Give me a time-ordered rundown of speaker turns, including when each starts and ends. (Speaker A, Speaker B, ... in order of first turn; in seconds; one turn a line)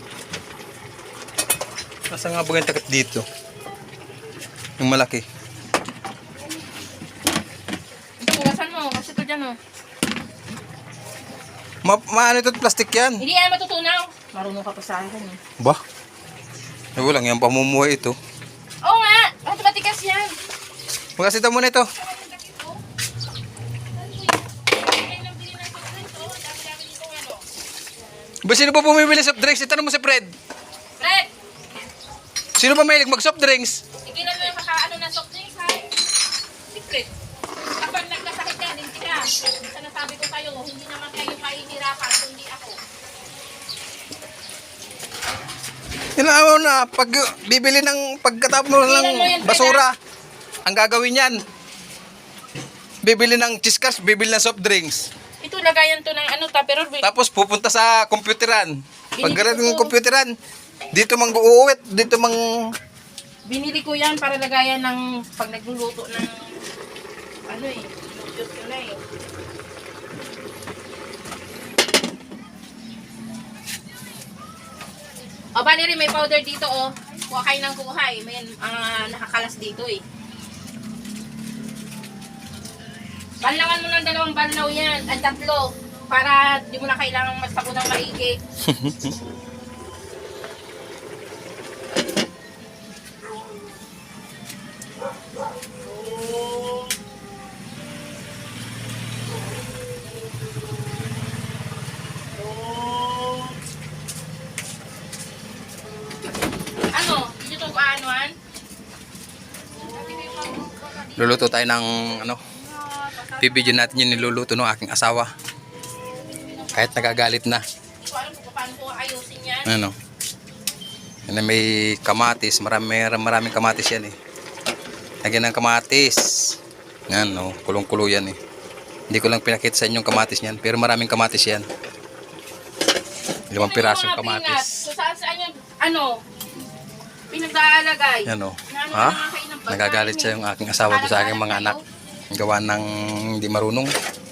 Speaker A: 2.1-3.2
Speaker A: 4.8-5.2
Speaker B: 8.2-9.6
Speaker A: 11.8-13.2
Speaker B: 13.2-15.4
Speaker A: 17.0-18.2
Speaker B: 18.8-20.4
Speaker A: 21.2-21.9
Speaker B: 22.0-22.8
Speaker B: 24.0-27.4
Speaker A: 28.4-30.3
Speaker B: 31.0-31.3
Speaker A: 32.6-33.8
Speaker B: 34.0-35.9
Speaker B: 36.7-37.1
Speaker B: 37.8-42.8
Speaker A: 46.2-50.0
Speaker B: 48.8-49.8
Speaker A: 50.7-51.4
Speaker A: 53.0-55.1
Speaker B: 55.4-57.1
Speaker A: 57.0-60.3
Speaker B: 59.2-59.9
Speaker A: 60.9-62.6
Speaker B: 63.5-66.6
Speaker B: 67.5-69.0
Speaker B: 75.6-80.0
Speaker B: 83.4-88.4
Speaker A: 88.6-89.1
Speaker B: 106.9-108.3
Speaker B: 109.9-111.6
Speaker A: 111.2-112.4
Speaker B: 112.5-114.3
Speaker A: 113.4-115.3
Speaker B: 116.4-117.3
Speaker A: 116.7-117.6
Speaker B: 118.0-119.7
Speaker A: 119.7-120.0
Speaker A: 121.3-124.2
Speaker A: 125.2-126.6
Speaker A: 127.1-128.4
Speaker A: 129.1-131.7
Speaker A: 133.5-134.8
Speaker B: 133.6-136.2
Speaker B: 137.3-140.4
Speaker A: 138.3-141.8
Speaker B: 140.9-141.8
Speaker A: 142.3-143.9